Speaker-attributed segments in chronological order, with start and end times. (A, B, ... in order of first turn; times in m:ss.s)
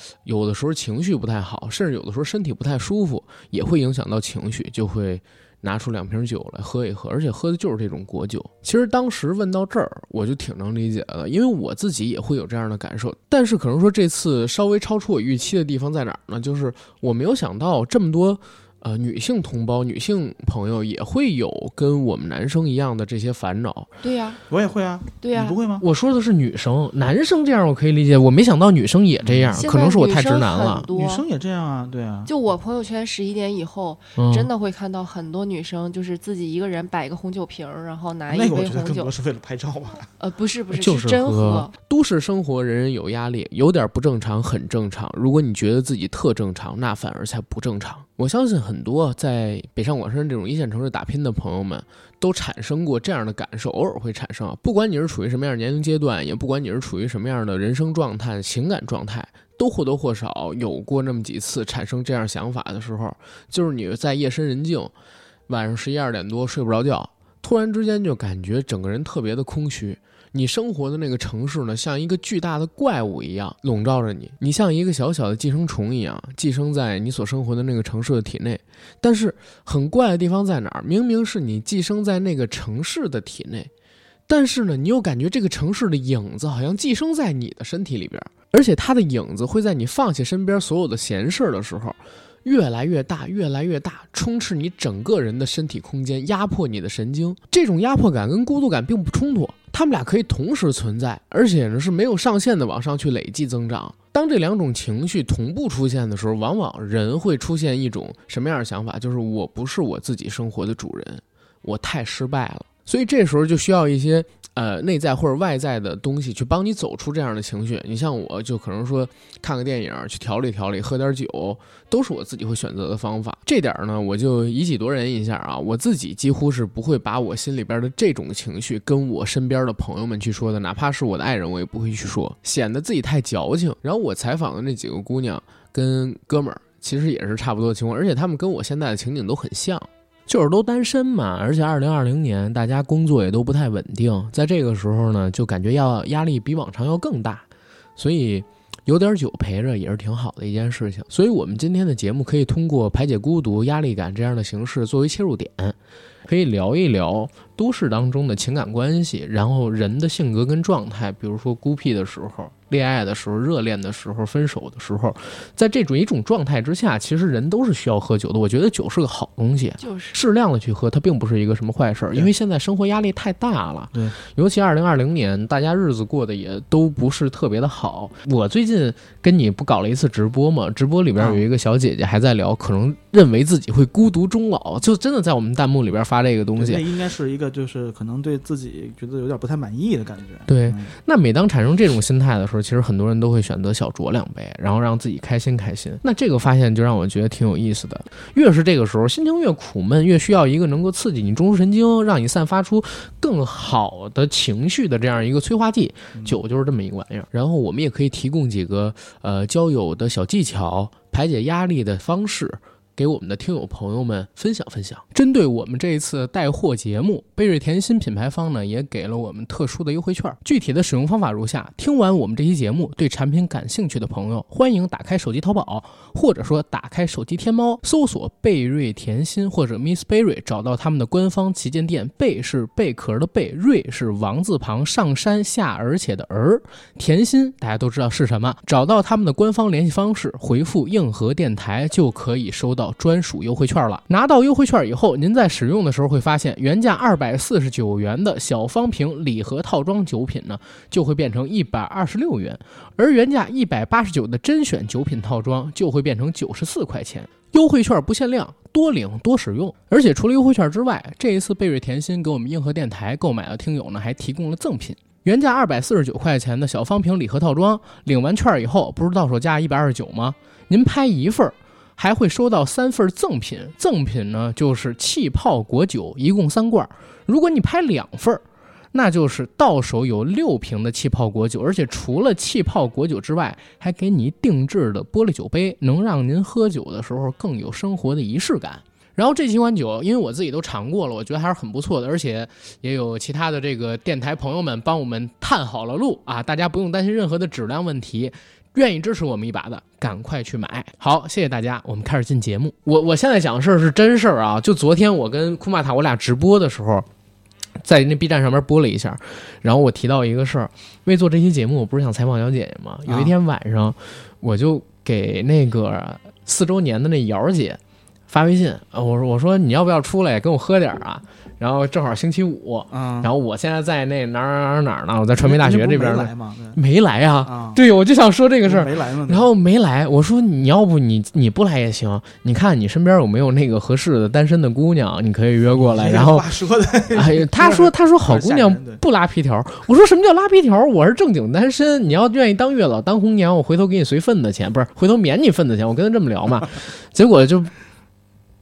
0:00.2-0:23.9 A
0:24.0-0:24.4 B
0:24.5-0:25.8 C
0:25.2-0:25.6 B
0:25.8-0:30.9 A
0:29.2-0:29.6 C
0:29.6-0:31.2 B
0:30.9-0:32.3 C
0:32.2-0:39.1 B
0:34.2-0:34.5 A
0:38.3-0:40.1 C
0:40.2-0:41.7 B
0:40.7-1:04.9 A
1:05.5-1:23.7 A
1:24.3-2:27.4 A
2:28.0-3:06.8 A
2:49.8-2:50.2 B
3:01.2-3:01.4 C
3:06.6-3:10.9 C
3:10.5-5:07.1 A
5:07.8-5:36.5 A
5:13.1-5:13.3 C
5:22.9-5:23.3 C
5:25.4-5:26.8 C
5:27.4-5:27.8 C
5:28.6-5:29.5 C
5:35.8-5:39.0 C
5:37.1-5:47.7 A